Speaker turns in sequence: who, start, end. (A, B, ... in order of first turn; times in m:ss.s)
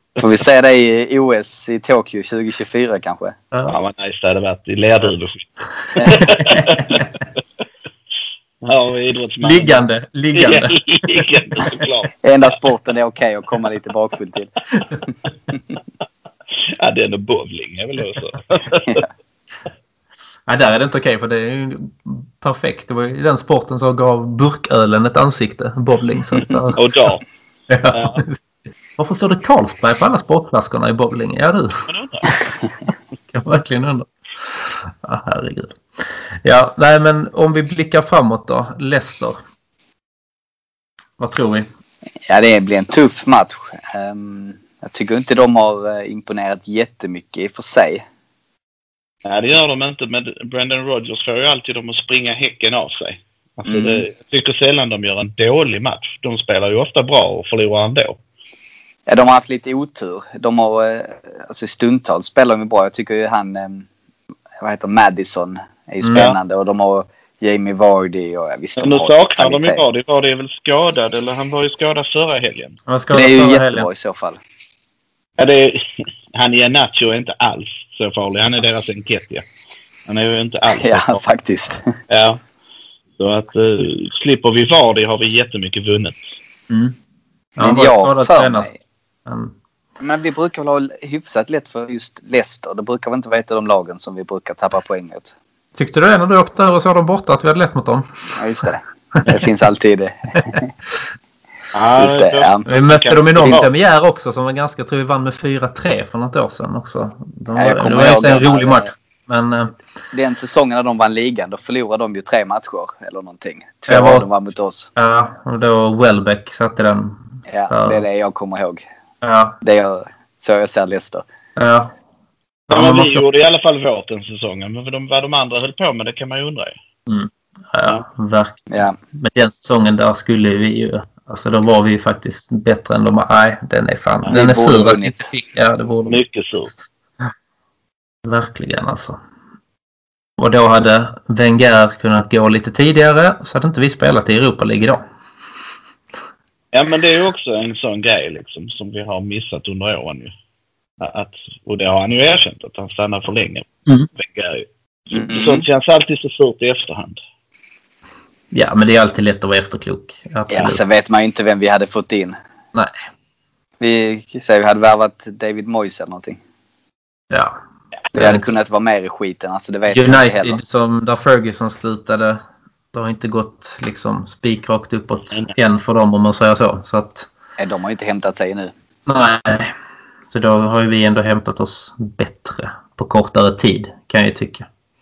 0:00.2-0:03.4 A
0:03.7-0:07.0 B
0:06.0-0:06.2 A
0:06.1-0:07.0 C
0:08.6-0:09.8 B
0:09.4-0:11.7 C
0:10.4-0:12.2 B
0:12.2-0:14.5 A
0:16.7-0:19.0 B
0:20.5-0:27.1 C
0:26.7-0:27.2 B
0:27.7-0:28.4 C
0:27.9-0:28.2 B
0:29.0-0:31.9 C
0:31.9-0:32.4 B
0:33.3-0:35.8 C
0:36.4-0:39.4 C
0:41.2-0:41.7 C
0:42.3-0:48.0 A
0:49.2-0:58.2 B
0:53.6-0:54.0 A
0:59.1-1:03.9 A
1:04.6-1:09.8 A
1:06.0-1:06.4 C
1:08.8-1:12.8 B
1:12.9-1:13.9 C
1:13.1-1:14.4 A
1:15.4-1:19.4 B
1:20.1-1:21.2 B
1:20.8-1:21.9 A
1:22.1-1:22.4 B
1:23.2-1:26.4 B
1:26.7-1:27.0 C
1:27.6-1:29.5 C
1:27.6-1:28.8 A
1:30.0-1:35.4 A
1:35.8-1:38.1 C
1:38.4-1:40.7 A
1:41.7-1:43.7 B
1:42.0-1:42.7 A
1:42.7-1:49.7 C
1:43.4-1:43.6 A
1:47.6-1:48.9 A
1:50.1-1:54.9 A
1:53.9-1:54.3 C
1:55.0-1:58.0 C
1:57.5-1:58.8 A
1:59.2-1:59.6 C
1:59.6-2:01.2 A
2:01.6-2:01.9 C
2:02.7-2:03.2 C
2:02.7-2:06.8 B
2:07.1-2:16.2 C
2:08.7-2:09.0 A
2:14.3-2:15.3 A
2:16.1-2:16.7 B
2:18.2-2:19.2 C
2:20.4-2:25.0 C
2:26.7-2:30.3 B
2:31.0-2:37.2 B
2:35.1-2:35.7 A
2:38.5-2:40.8 C
2:40.5-2:42.4 A
2:43.8-2:46.4 A
2:48.1-2:50.6 A
2:48.2-2:48.5 C
2:49.9-2:52.4 C
2:52.9-2:57.3 C
2:57.6-2:58.7 A
2:59.1-2:59.7 C
3:00.3-3:04.7 C